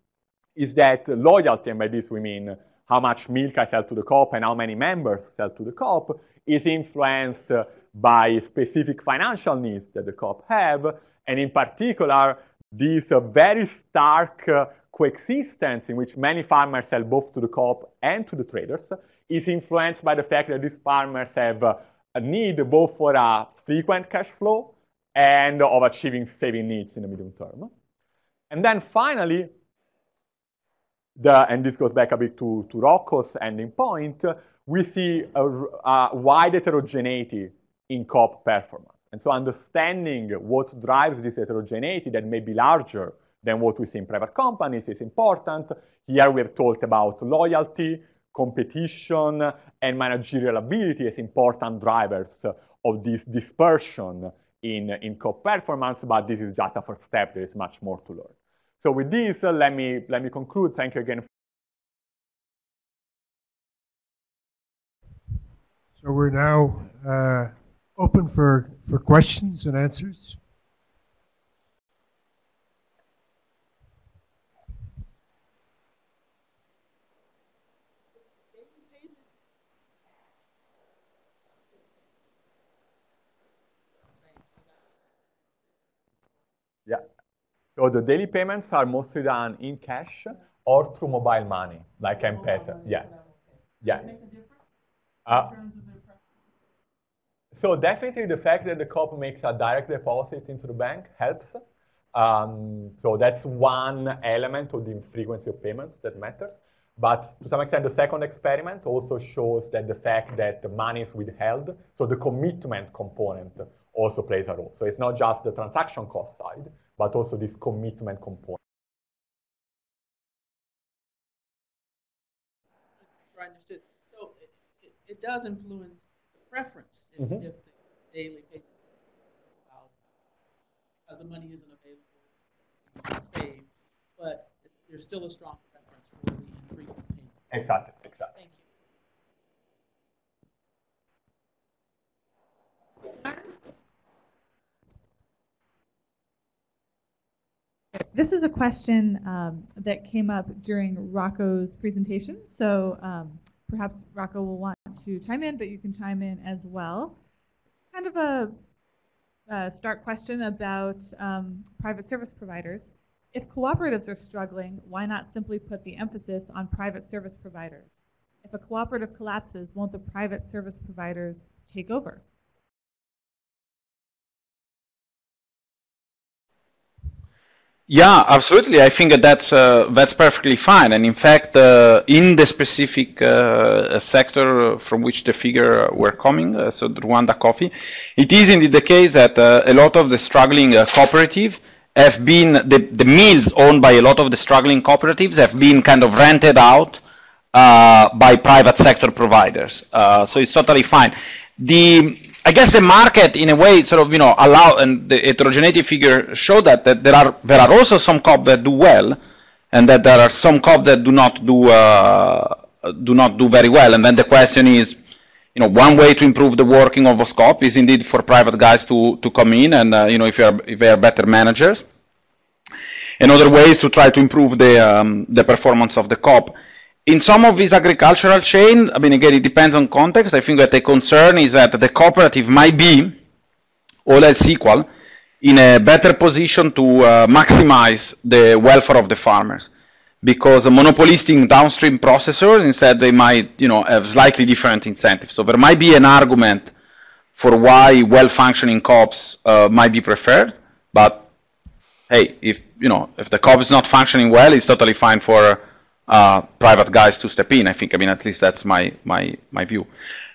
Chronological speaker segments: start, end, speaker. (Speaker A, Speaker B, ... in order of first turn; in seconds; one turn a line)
Speaker A: 0.6-27.7
Speaker A: 28.5-29.5
Speaker A: 31.2-61.3
Speaker B: 66.0-70.4
Speaker C: 78.1-79.4
Speaker C: 81.5-82.2
Speaker C: 83.9-86.0
Speaker A: 87.8-93.1
Speaker C: 92.2-94.7
Speaker A: 93.8-94.1
Speaker C: 95.2-96.2
Speaker A: 97.5-101.6
Speaker A: 102.1-118.6
Speaker C: 123.0-130.0
Speaker C: 131.1-137.4
Speaker A: 137.5-138.3
Speaker C: 138.3-138.7
Speaker D: 147.9-157.2
Speaker D: 157.9-158.6
Speaker D: 159.5-172.2
Speaker E: 177.9-197.0
Speaker E: 197.5-209.2
Speaker E: 209.7-215.0
Speaker E: 215.5-221.8
Speaker E: 223.2-233.2
Speaker E: 234.1-234.9
Speaker E: 235.4-239.7
Speaker E: 240.2-246.7
Speaker E: 247.4-251.3
Speaker E: 252.1-259.9